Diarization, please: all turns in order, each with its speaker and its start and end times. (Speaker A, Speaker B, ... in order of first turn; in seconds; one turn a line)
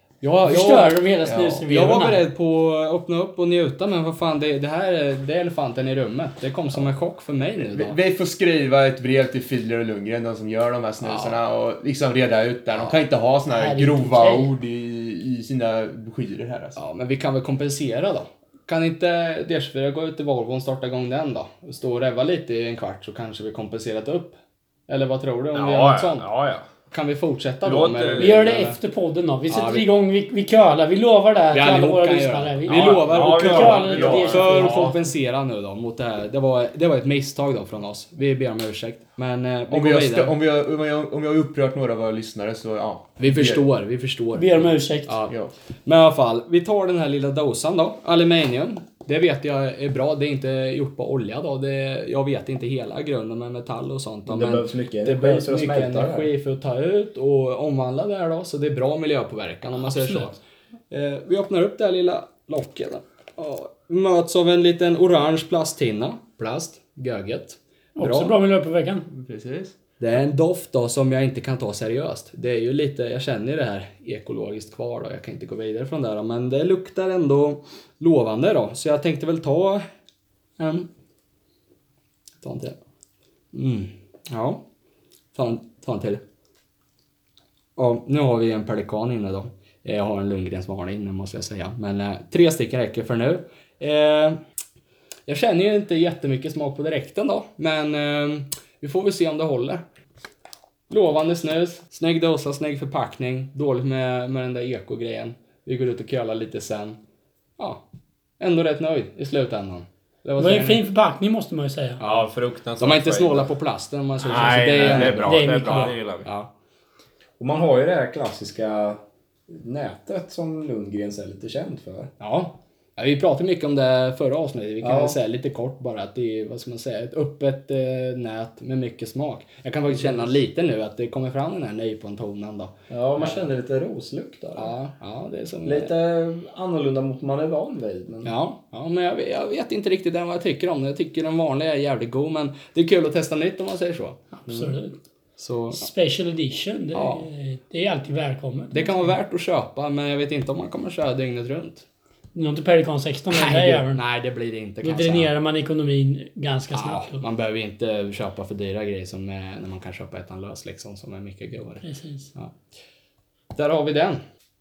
Speaker A: 0.2-1.1
Speaker B: 0.4-2.2
Speaker C: 1.2-1.9
Speaker A: 1.6-8.0
Speaker C: 7.6-16.8
Speaker A: 11.0-11.4
Speaker A: 12.7-13.0
Speaker B: 13.5-14.5
Speaker A: 16.8-24.4
Speaker A: 24.9-26.3
Speaker D: 25.5-26.7
Speaker A: 26.9-28.8
Speaker D: 27.6-28.4
Speaker B: 28.1-34.9
Speaker A: 29.5-29.9
Speaker A: 31.5-40.4
Speaker C: 32.7-33.8
Speaker D: 32.8-35.0
Speaker C: 39.7-43.6
Speaker A: 43.2-60.4
Speaker B: 44.3-45.1
Speaker C: 45.3-45.5
Speaker E: 54.3-56.3
Speaker B: 59.8-60.3
Speaker A: 60.9-68.3
Speaker B: 68.0-69.1
Speaker C: 69.1-69.7
Speaker A: 70.0-79.8
Speaker A: 80.6-80.9
Speaker A: 82.4-82.8
Speaker A: 83.5-84.6
Speaker A: 85.3-86.2
Speaker A: 87.8-94.4
Speaker A: 95.3-99.8
Speaker A: 100.9-107.0
Speaker A: 108.4-110.8
Speaker B: 110.4-112.0
Speaker D: 112.0-113.5
Speaker A: 112.0-116.5
Speaker D: 114.2-116.3
Speaker B: 114.8-116.0
Speaker E: 117.4-122.1
Speaker A: 122.2-133.5
Speaker E: 124.8-125.2
Speaker E: 129.9-130.3
Speaker E: 132.9-134.7
Speaker A: 134.6-135.9
Speaker E: 135.6-138.3
Speaker A: 138.2-144.2
Speaker B: 144.3-145.0
Speaker A: 145.4-145.9
Speaker B: 145.7-149.2
Speaker A: 146.9-147.3
Speaker A: 148.7-151.8
Speaker B: 152.3-154.0
Speaker A: 153.3-155.3
Speaker B: 154.8-157.2
Speaker A: 156.7-161.8
Speaker B: 161.8-162.3
Speaker A: 163.5-164.2